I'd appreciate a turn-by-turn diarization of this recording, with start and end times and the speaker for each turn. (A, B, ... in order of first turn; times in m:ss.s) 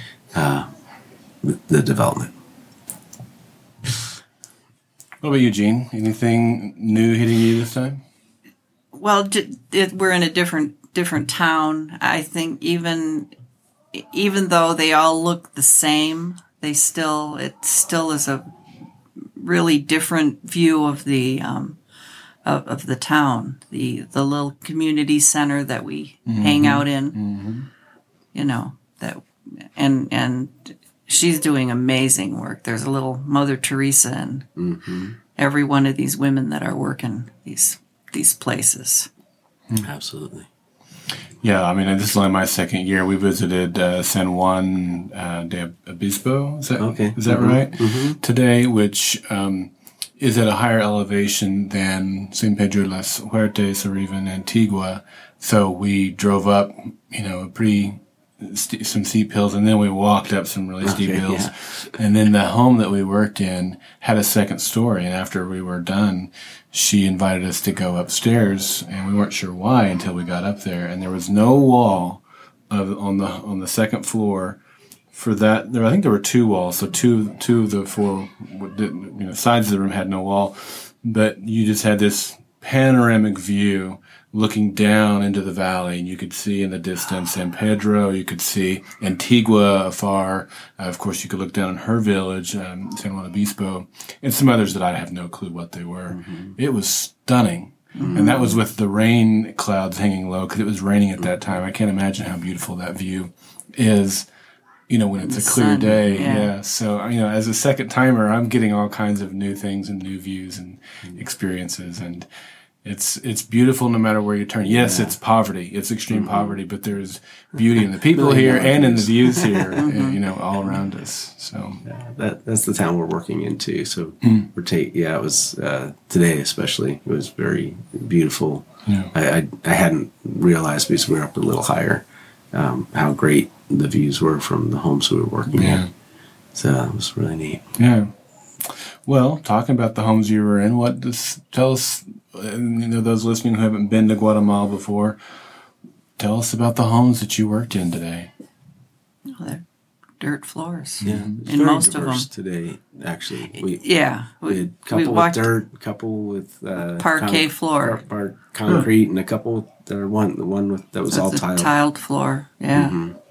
0:00.3-0:00.7 A
0:01.4-0:02.3 A
0:05.2-0:08.0 B
0:08.9-0:13.3 C
0:13.9-0:18.5 C
0:19.4-0:21.8 C
0:22.4-0:27.2 C
0:26.3-0:27.7 B
0:28.3-0:34.5 C
0:34.6-0:35.2 A
0:35.4-0:39.1 C
0:39.8-0:40.5 A
0:41.4-1:14.6 B
0:46.8-0:48.2 A
1:00.8-1:01.5 A
1:15.1-1:44.3 B
1:36.1-1:36.6 A
1:38.0-1:38.3 C
1:38.0-1:38.6 A
1:44.9-1:52.2 B
1:45.2-1:46.5 C
1:52.8-2:01.8 B
1:54.6-1:55.1 A
1:56.1-1:56.6 A
1:58.1-1:59.8 A
1:59.8-2:00.2 C
2:01.8-2:15.8 A
2:04.2-2:04.5 B
2:08.8-2:09.1 B
2:15.5-2:15.9 B
2:16.5-2:17.7 A
2:17.8-2:18.1 B
2:18.6-2:25.2 B
2:26.2-2:28.3 B
2:29.3-2:29.6 C
2:30.2-2:32.3 C
2:31.0-2:31.4 B
2:31.0-2:33.9 A
2:33.6-2:35.5 C
2:34.4-2:41.7 A
2:36.8-2:38.0 C
2:41.1-2:43.0 C
2:42.7-2:43.2 A